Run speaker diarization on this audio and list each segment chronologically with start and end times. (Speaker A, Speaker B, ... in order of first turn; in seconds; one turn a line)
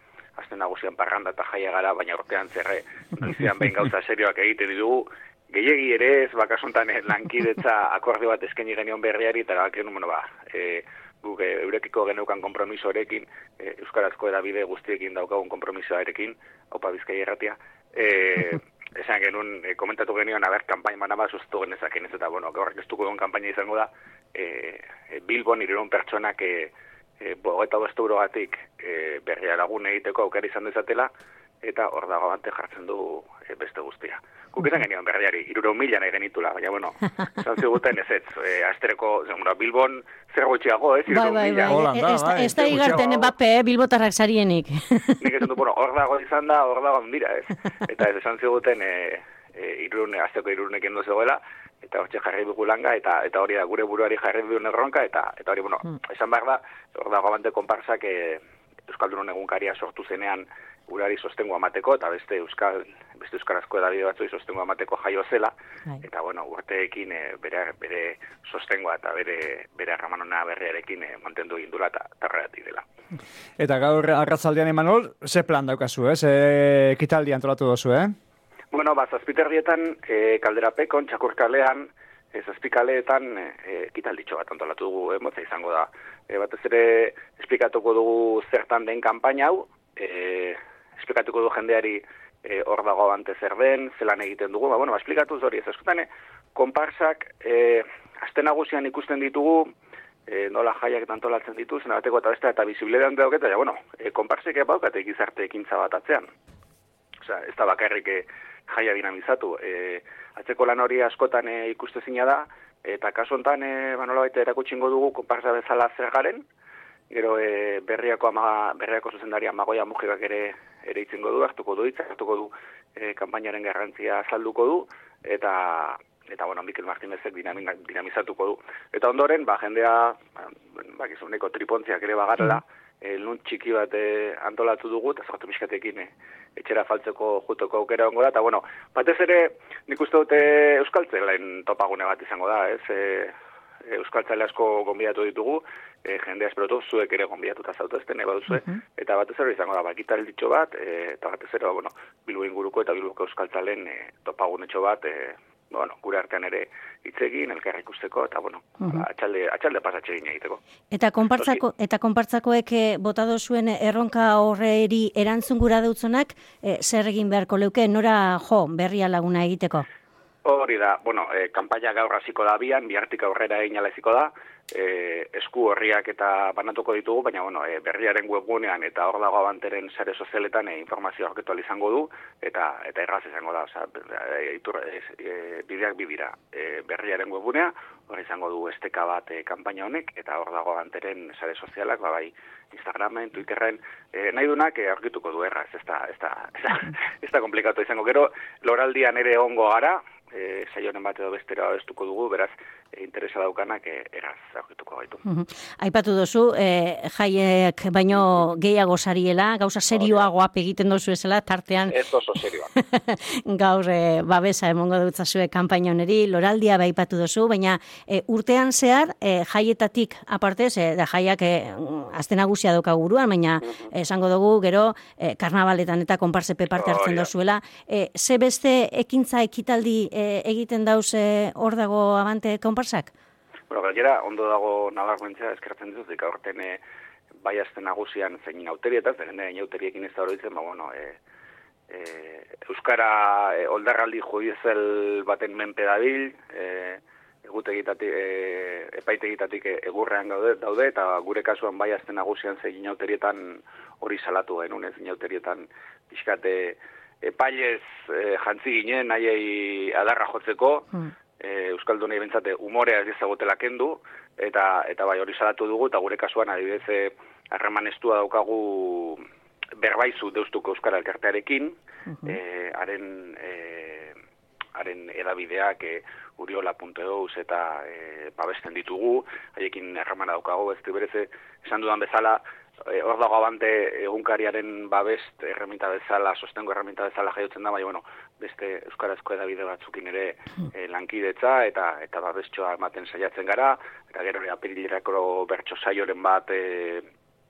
Speaker A: 0.4-31.1
Speaker A: 31.6-41.9
Speaker B: 41.1-45.2
Speaker C: 41.7-43.1
Speaker A: 42.8-43.1
Speaker A: 45.2-72.8
Speaker C: 73.6-78.2
Speaker A: 78.7-99.7
Speaker A: 100.3-106.3
Speaker A: 107.2-116.5
Speaker A: 117.1-143.3
Speaker A: 143.9-160.6
Speaker B: 160.9-169.9
Speaker A: 170.4-205.2
Speaker B: 205.3-211.9
Speaker A: 209.9-210.3
Speaker A: 211.9-212.7
Speaker B: 212.8-233.1
Speaker A: 226.8-227.3
Speaker A: 233.7-236.8
Speaker A: 237.4-241.2
Speaker A: 241.9-269.2
Speaker A: 269.8-274.2
Speaker A: 274.8-297.1